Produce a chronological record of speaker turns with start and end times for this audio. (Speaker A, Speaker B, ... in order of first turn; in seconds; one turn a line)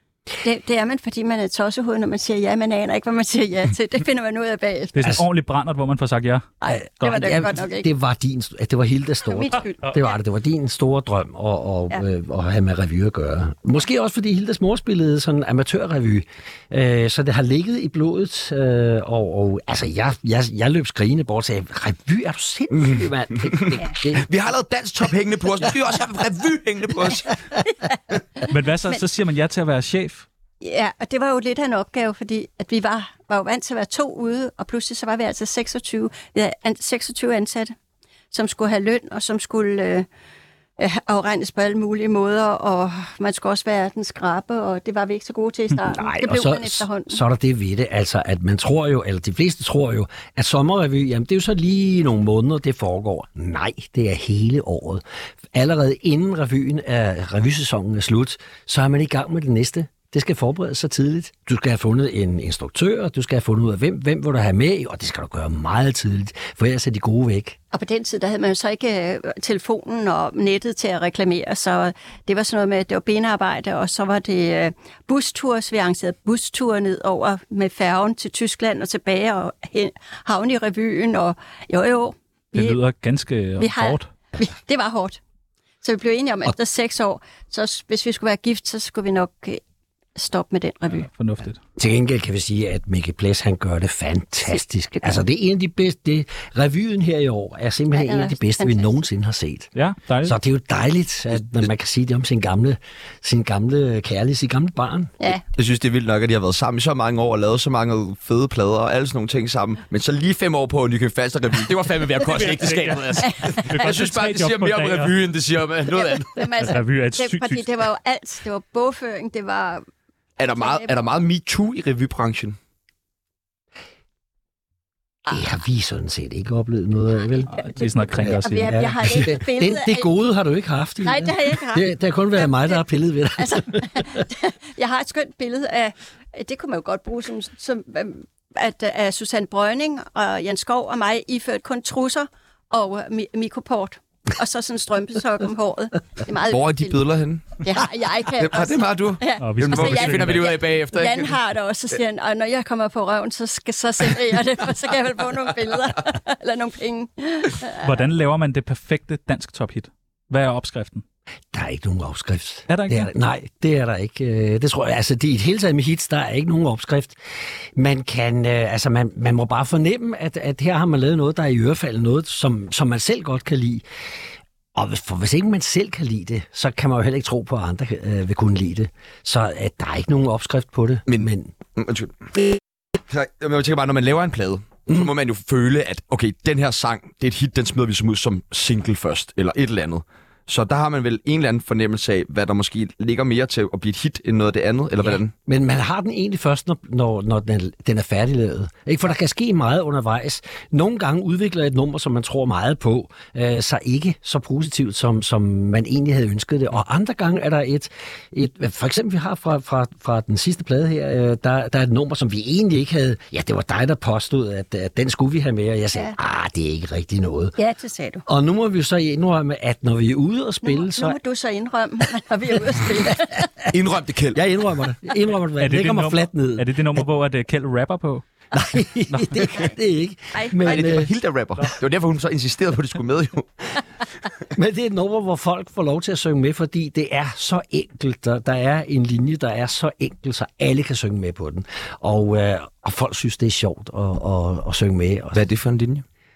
Speaker A: 0.4-5.0
Speaker B: 5.0-6.5
Speaker A: 6.6-7.9
Speaker C: 6.7-24.3
Speaker B: 7.1-7.4
Speaker A: 9.2-10.2
Speaker D: 23.5-27.4
Speaker B: 28.4-30.3
Speaker A: 30.6-37.7
Speaker A: 38.3-40.1
Speaker A: 40.8-47.2
Speaker C: 45.8-67.6
Speaker A: 67.7-82.8
Speaker B: 82.5-84.1
Speaker A: 83.6-85.2
Speaker A: 85.8-89.6
Speaker A: 90.2-91.1
Speaker B: 91.0-91.6
Speaker C: 91.8-99.7
Speaker A: 97.9-98.9
Speaker B: 99.8-100.4
Speaker C: 100.2-105.2
Speaker D: 105.5-116.4
Speaker B: 112.2-115.1
Speaker A: 113.2-113.7
Speaker A: 115.9-119.9
Speaker B: 116.6-117.7
Speaker D: 120.4-122.6
Speaker A: 120.6-121.0
Speaker C: 125.3-134.2
Speaker B: 127.5-128.8
Speaker A: 127.6-130.1
Speaker A: 131.0-132.8
Speaker A: 133.4-147.0
Speaker D: 146.5-147.6
Speaker A: 147.6-157.9
Speaker D: 148.3-151.3
Speaker B: 149.4-150.6
Speaker B: 157.8-161.0
Speaker C: 161.5-167.2
Speaker B: 162.7-163.1
Speaker C: 167.8-173.8
Speaker C: 174.8-181.5
Speaker D: 181.1-195.3
Speaker C: 195.0-217.6
Speaker A: 217.6-218.2
Speaker C: 218.3-221.2
Speaker A: 220.6-223.5
Speaker D: 223.7-224.4
Speaker C: 224.3-227.0
Speaker B: 225.6-228.2
Speaker C: 228.5-231.1
Speaker A: 230.3-231.0
Speaker D: 230.6-233.6
Speaker C: 234.6-245.4
Speaker D: 245.3-246.0